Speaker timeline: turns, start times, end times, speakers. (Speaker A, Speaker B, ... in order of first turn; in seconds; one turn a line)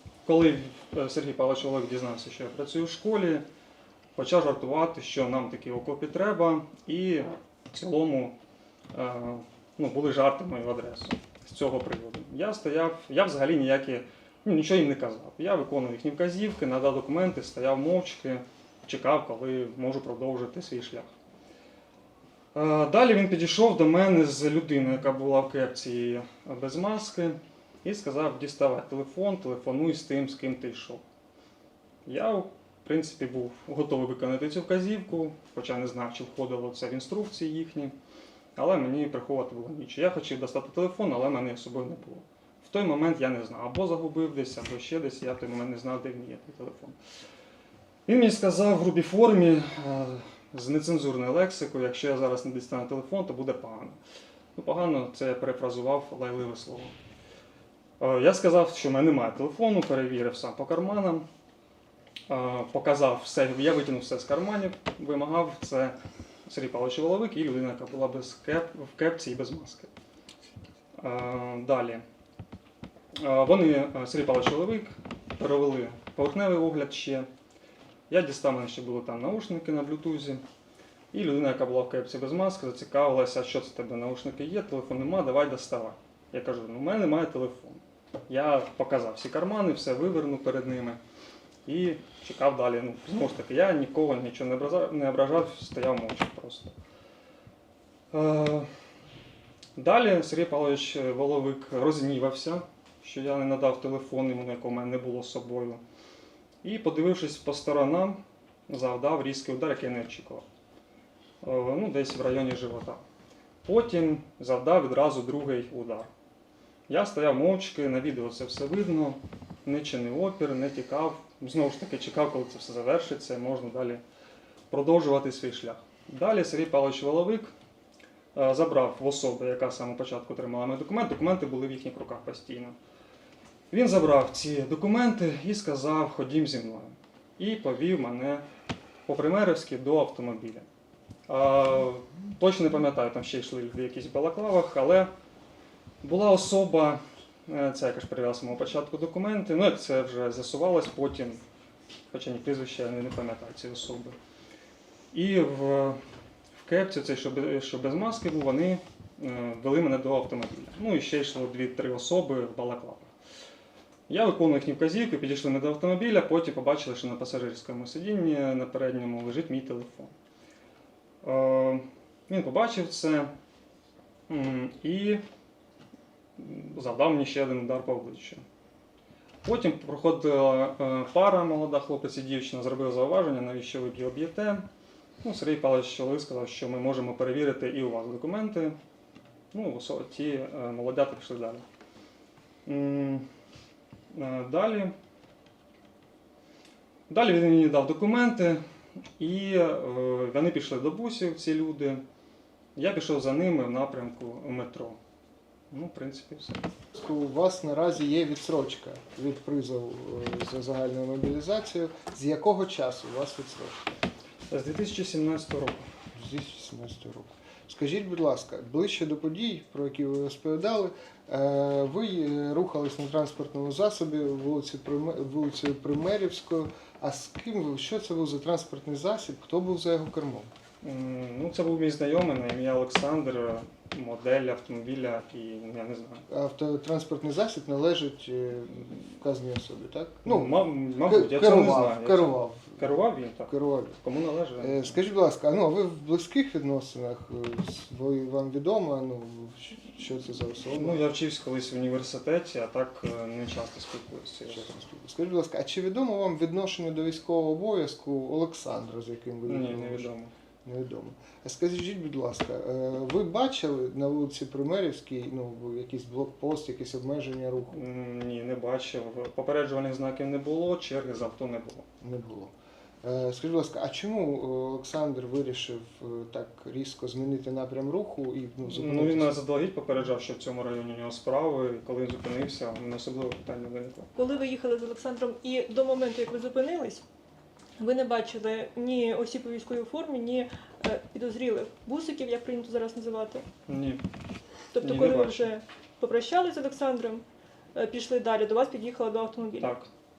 Speaker A: 0.2-3.5
Speaker A: 4.2-8.3
Speaker A: 8.9-21.1
Speaker A: 22.5-31.0
Speaker A: 32.0-37.9
Speaker A: 38.6-47.0
Speaker A: 48.1-54.0
Speaker A: 54.6-57.0
Speaker A: 58.0-61.3
Speaker A: 62.3-69.9
Speaker A: 71.0-72.0
Speaker A: 73.2-77.3
Speaker A: 78.1-80.4
Speaker A: 81.1-91.0
Speaker A: 91.7-96.8
Speaker A: 98.1-98.7
Speaker A: 99.8-105.8
Speaker A: 106.6-110.4
Speaker A: 111.4-113.0
Speaker A: 113.7-116.1
Speaker A: 116.9-124.0
Speaker A: 124.7-127.5
Speaker A: 128.3-132.8
Speaker A: 133.7-138.4
Speaker A: 139.1-140.7
Speaker A: 141.3-145.1
Speaker A: 146.0-151.4
Speaker A: 152.1-154.2
Speaker A: 155.1-156.0
Speaker A: 156.6-163.1
Speaker A: 164.1-170.1
Speaker A: 171.2-173.3
Speaker A: 174.3-175.2
Speaker A: 176.4-178.4
Speaker A: 179.4-184.7
Speaker A: 185.2-188.8
Speaker A: 189.5-191.6
Speaker A: 192.7-193.3
Speaker A: 194.1-194.9
Speaker A: 197.1-198.6
Speaker A: 199.2-202.0
Speaker A: 202.8-205.0
Speaker A: 205.7-206.6
Speaker B: 206.9-213.9
Speaker A: 214.5-215.9
Speaker B: 216.1-230.5
Speaker A: 230.8-236.2
Speaker B: 236.3-244.0
Speaker A: 240.2-244.9
Speaker B: 244.6-251.0
Speaker A: 250.7-254.7
Speaker B: 254.5-260.1
Speaker A: 259.5-260.3
Speaker B: 260.6-267.8
Speaker A: 267.7-271.9
Speaker B: 272.0-279.4
Speaker A: 278.7-284.1
Speaker C: 284.1-287.0
Speaker C: 287.8-293.4
Speaker A: 293.7-294.0
Speaker C: 294.8-299.8
Speaker A: 294.8-295.5
Speaker A: 299.6-299.9